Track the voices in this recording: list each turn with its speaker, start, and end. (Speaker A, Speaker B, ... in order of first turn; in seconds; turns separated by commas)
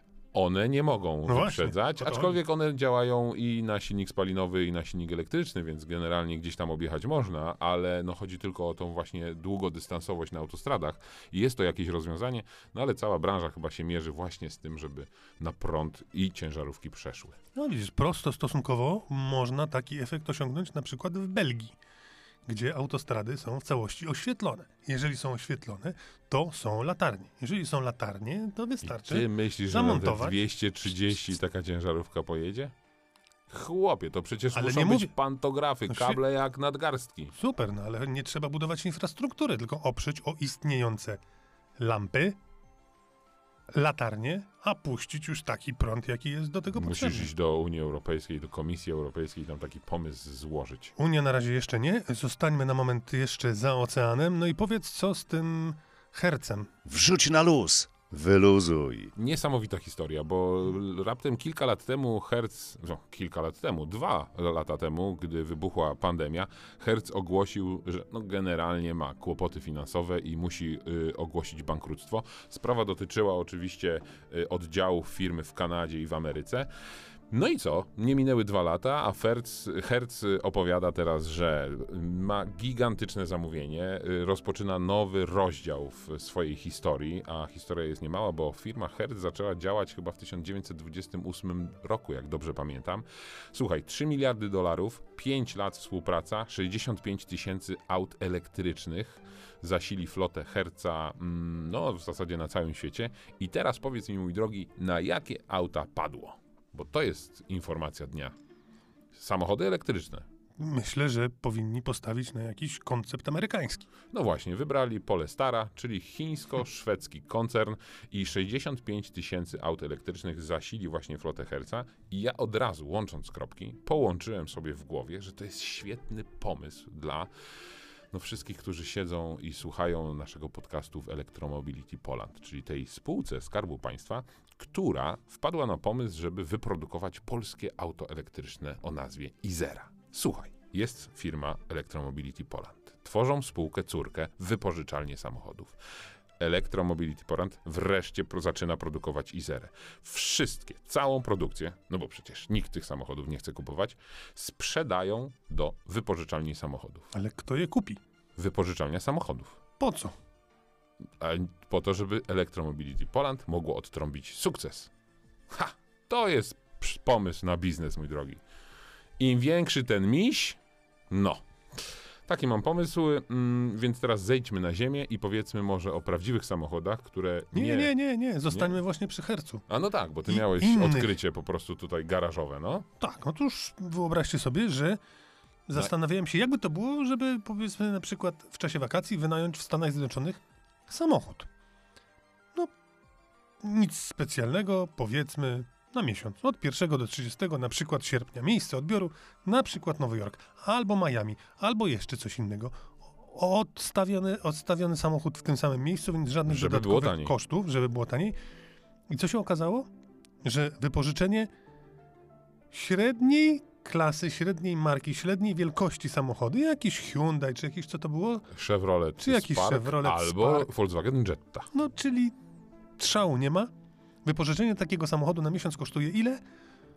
Speaker A: 0.3-17.4, Speaker B: 1.3-2.4, Speaker B: 17.6-21.8, Speaker B: 22.5-30.4, Speaker A: 28.8-32.7, Speaker A: 33.5-37.3, Speaker B: 34.5-35.1, Speaker B: 35.9-36.2, Speaker B: 37.4-41.2, Speaker B: 41.8-42.4, Speaker B: 43.7-47.3, Speaker A: 46.8-50.9, Speaker B: 51.0-56.7, Speaker C: 56.9-59.1, Speaker A: 59.1-76.7, Speaker A: 77.3-108.3, Speaker A: 109.1-110.3, Speaker B: 110.6-113.9, Speaker A: 114.1-127.3, Speaker A: 128.1-145.8, Speaker A: 146.4-157.1, Speaker B: 157.1-158.0, Speaker A: 158.4-159.6, Speaker B: 159.8-160.2, Speaker A: 161.2-164.9, Speaker A: 165.5-168.4, Speaker A: 169.2-170.6, Speaker A: 171.1-177.9, Speaker B: 177.5-179.7, Speaker A: 179.7-182.9, Speaker B: 180.3-181.1, Speaker B: 183.0-185.0, Speaker B: 185.7-191.5, Speaker B: 193.6-208.4, Speaker A: 206.5-207.4, Speaker B: 209.1-209.9, Speaker B: 210.4-211.5, Speaker B: 212.7-218.5, Speaker A: 218.5-221.7, Speaker B: 219.2-220.7, Speaker B: 221.7-222.3, Speaker B: 223.0-223.7, Speaker B: 224.2-226.4